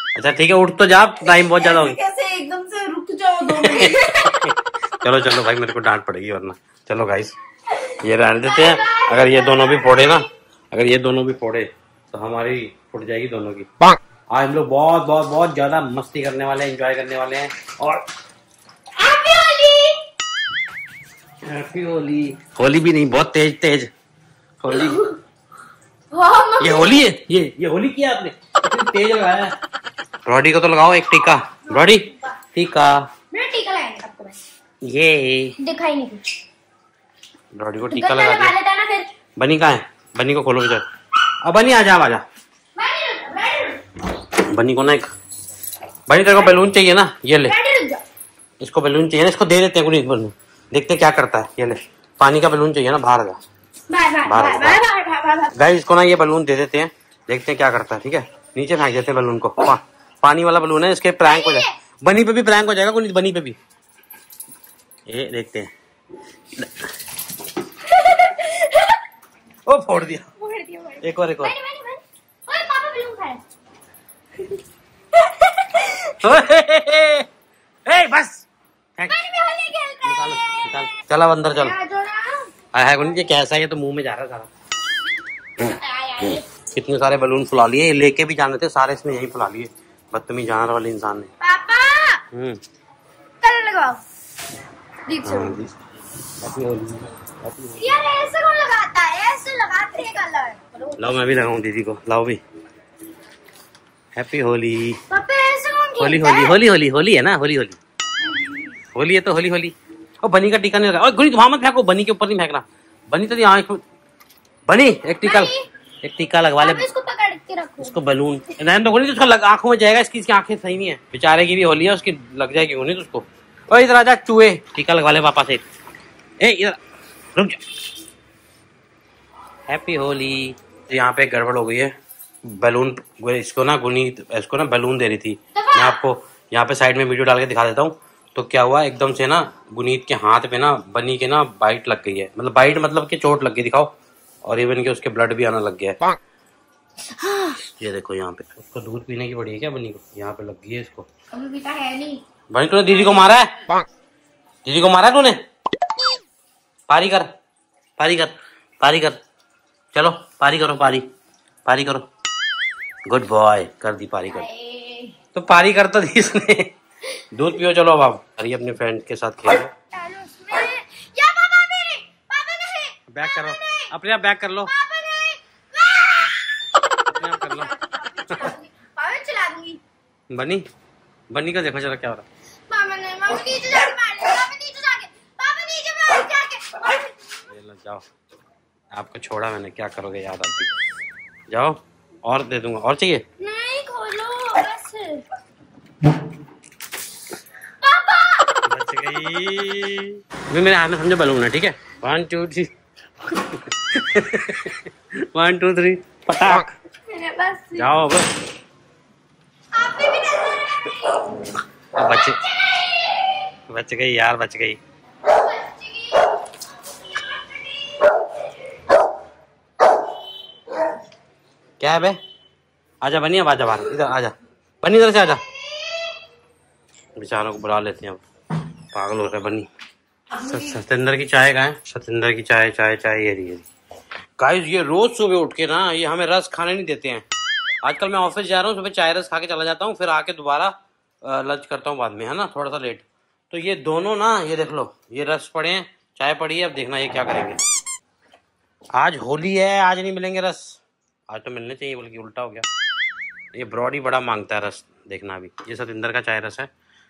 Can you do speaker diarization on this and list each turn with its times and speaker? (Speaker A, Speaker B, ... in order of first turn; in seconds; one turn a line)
Speaker A: 0.1-2.0
Speaker B: 1.6-4.2
Speaker A: 3.5-7.3
Speaker A: 8.0-13.7
Speaker C: 8.4-10.3
Speaker A: 14.3-18.0
Speaker C: 19.0-20.0
Speaker A: 21.4-23.9
Speaker A: 24.6-25.1
Speaker C: 24.7-25.1
Speaker C: 26.1-27.0
Speaker A: 26.6-29.5
Speaker A: 30.3-33.1
Speaker C: 31.7-32.3
Speaker C: 33.3-34.4
Speaker A: 34.8-35.6
Speaker C: 35.6-36.2
Speaker A: 37.5-38.5
Speaker C: 37.9-39.1
Speaker A: 39.4-40.9
Speaker A: 41.4-42.2
Speaker C: 42.8-43.8
Speaker A: 44.4-45.1
Speaker A: 46.1-47.5
Speaker C: 47.5-48.0
Speaker A: 48.6-53.4
Speaker C: 53.9-55.5
Speaker A: 54.2-54.8
Speaker A: 55.5-63.6
Speaker C: 61.2-61.7
Speaker A: 65.1-65.7
Speaker C: 68.0-69.0
Speaker A: 69.7-70.3
Speaker C: 70.4-73.4
Speaker A: 71.0-71.5
Speaker C: 75.2-76.1
Speaker A: 76.0-77.3
Speaker A: 77.9-78.5
Speaker C: 79.1-80.6
Speaker A: 80.0-81.8
Speaker C: 81.5-82.5
Speaker A: 82.7-84.5
Speaker A: 85.6-91.3
Speaker C: 85.7-86.5
Speaker C: 91.4-92.2
Speaker A: 92.3-92.6
Speaker C: 93.4-94.0
Speaker C: 95.1-95.6
Speaker A: 95.2-95.7
Speaker A: 96.4-98.0
Speaker C: 97.8-101.0
Speaker A: 101.0-102.4
Speaker A: 104.2-105.0
Speaker C: 105.1-106.6
Speaker A: 106.0-107.8
Speaker A: 109.0-113.8
Speaker A: 114.7-116.9
Speaker C: 115.2-115.7
Speaker C: 116.6-118.0
Speaker A: 117.8-125.7
Speaker A: 126.4-126.8
Speaker A: 127.3-127.6
Speaker A: 129.7-131.9
Speaker A: 132.5-143.9
Speaker C: 135.6-136.0
Speaker A: 144.4-146.0
Speaker C: 147.2-147.6
Speaker A: 147.8-151.1
Speaker C: 151.3-152.2
Speaker A: 152.5-153.5
Speaker A: 154.7-155.4
Speaker A: 156.9-157.3
Speaker A: 158.0-159.2
Speaker A: 159.9-161.1
Speaker A: 161.7-162.1
Speaker A: 163.1-164.5
Speaker C: 164.3-165.2
Speaker A: 165.3-166.7
Speaker A: 167.3-169.7
Speaker C: 169.9-173.9
Speaker A: 173.1-174.7
Speaker C: 174.7-176.5
Speaker A: 177.1-177.7
Speaker C: 177.1-179.8
Speaker A: 180.3-180.6
Speaker A: 181.3-182.2
Speaker C: 182.7-187.1
Speaker A: 187.5-188.1
Speaker A: 188.9-190.7
Speaker A: 191.5-193.2
Speaker C: 193.4-195.2
Speaker C: 197.8-198.5
Speaker A: 198.7-202.7
Speaker A: 203.3-206.7
Speaker C: 207.1-207.9
Speaker A: 207.8-208.3
Speaker C: 209.7-210.9
Speaker A: 212.0-212.4
Speaker C: 212.8-213.1
Speaker A: 213.7-214.8
Speaker C: 215.3-216.3
Speaker C: 217.2-218.0
Speaker A: 221.8-222.2
Speaker A: 223.0-225.4
Speaker A: 227.2-228.2
Speaker A: 228.9-229.7
Speaker A: 230.4-233.7
Speaker A: 234.4-237.2
Speaker A: 237.8-247.6
Speaker A: 249.0-252.7
Speaker A: 253.5-256.7